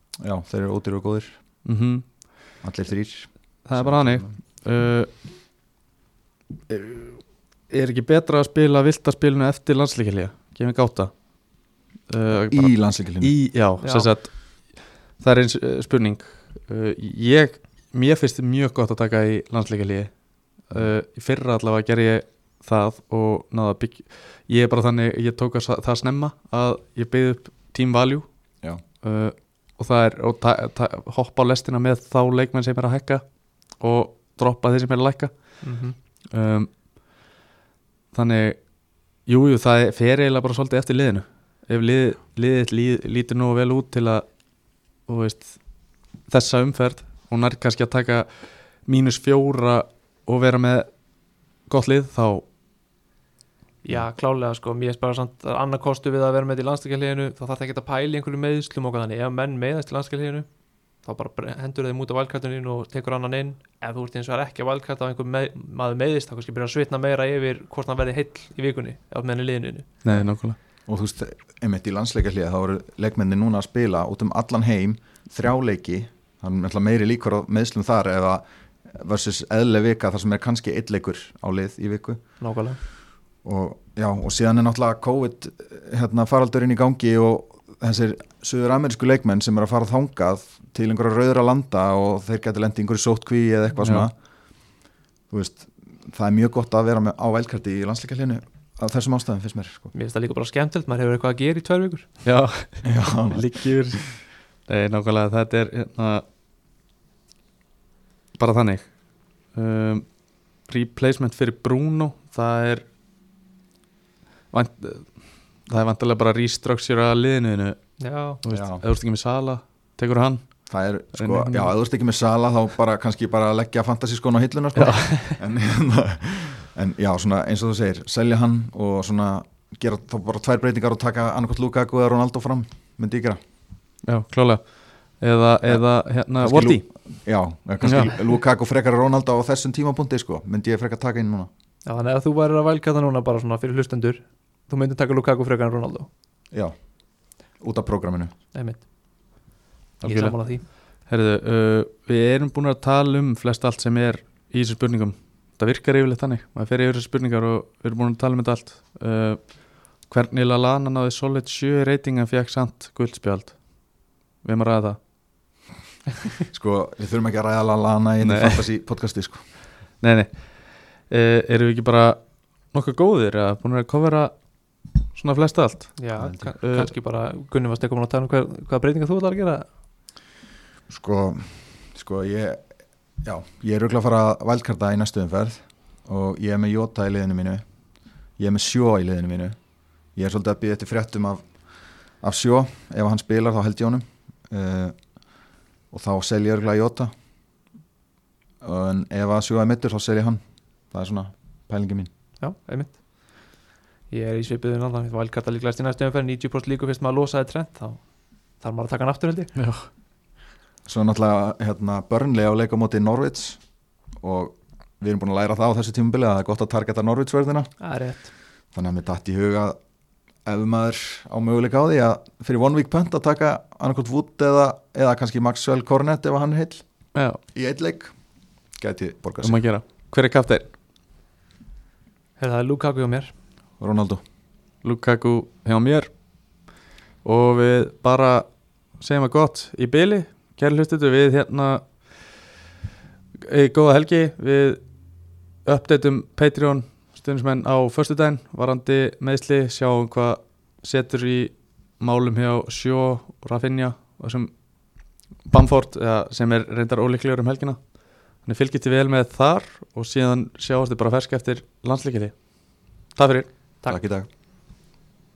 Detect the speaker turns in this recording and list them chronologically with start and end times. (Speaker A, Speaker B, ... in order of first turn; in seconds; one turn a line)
Speaker A: 0.2-1.4
Speaker B: 1.6-2.0
Speaker A: 2.6-4.3
Speaker B: 3.6-5.1
Speaker B: 6.7-11.1
Speaker B: 12.1-20.1
Speaker A: 12.3-13.3
Speaker C: 13.8-14.1
Speaker B: 20.7-28.3
Speaker B: 29.0-33.2
Speaker B: 33.8-35.5
Speaker C: 35.6-36.0
Speaker B: 36.3-36.7
Speaker B: 38.1-38.6
Speaker B: 39.2-44.2
Speaker B: 45.1-45.6
Speaker B: 46.3-48.3
Speaker B: 48.9-50.9
Speaker B: 51.7-52.4
Speaker C: 53.8-60.5
Speaker C: 61.0-69.9
Speaker B: 70.0-70.6
Speaker A: 70.9-82.2
Speaker C: 82.4-82.8
Speaker A: 83.4-94.1
Speaker B: 93.8-94.0
Speaker A: 95.3-99.9
Speaker C: 99.9-102.1
Speaker B: 102.2-104.1
Speaker A: 102.8-103.5
Speaker B: 104.7-106.2
Speaker B: 108.4-108.9
Speaker B: 109.5-110.0
Speaker B: 110.7-112.8
Speaker B: 114.5-115.1
Speaker B: 115.7-117.8
Speaker C: 118.0-118.4
Speaker B: 118.4-120.4
Speaker A: 118.5-118.8
Speaker A: 120.7-133.4
Speaker B: 121.2-121.7
Speaker B: 124.8-125.1
Speaker C: 124.8-125.3
Speaker B: 134.1-134.6
Speaker B: 135.2-136.8
Speaker A: 136.4-141.5
Speaker B: 137.8-138.1
Speaker C: 141.8-146.1
Speaker A: 147.6-148.3
Speaker C: 148.5-148.8
Speaker B: 150.0-150.4
Speaker C: 150.0-150.6
Speaker B: 151.1-159.5
Speaker B: 160.1-163.6
Speaker B: 164.4-165.0
Speaker A: 166.5-169.4
Speaker B: 168.2-168.6
Speaker B: 170.0-170.3
Speaker B: 171.1-172.2
Speaker B: 172.7-174.3
Speaker B: 175.1-176.0
Speaker C: 176.0-179.7
Speaker A: 176.2-176.5
Speaker B: 176.6-176.9
Speaker A: 180.9-182.6
Speaker A: 183.2-187.6
Speaker A: 188.4-189.6
Speaker A: 190.2-191.4
Speaker A: 192.2-194.9
Speaker A: 195.9-197.1
Speaker A: 198.6-200.4
Speaker A: 200.9-202.1
Speaker C: 202.4-203.0
Speaker C: 204.1-208.0
Speaker C: 208.6-209.5
Speaker B: 209.6-209.8
Speaker A: 210.8-213.6
Speaker A: 214.2-217.7
Speaker C: 217.8-218.3
Speaker A: 218.7-219.8
Speaker A: 220.4-226.8
Speaker A: 227.5-228.1
Speaker A: 228.8-229.6
Speaker B: 229.4-230.7
Speaker C: 232.4-233.3
Speaker A: 233.8-234.2
Speaker B: 234.8-236.1
Speaker B: 237.2-238.4
Speaker B: 239.0-241.8
Speaker B: 243.4-244.8
Speaker B: 245.6-254.5
Speaker B: 255.5-257.8
Speaker B: 258.4-262.4
Speaker B: 263.1-263.5
Speaker A: 263.9-264.2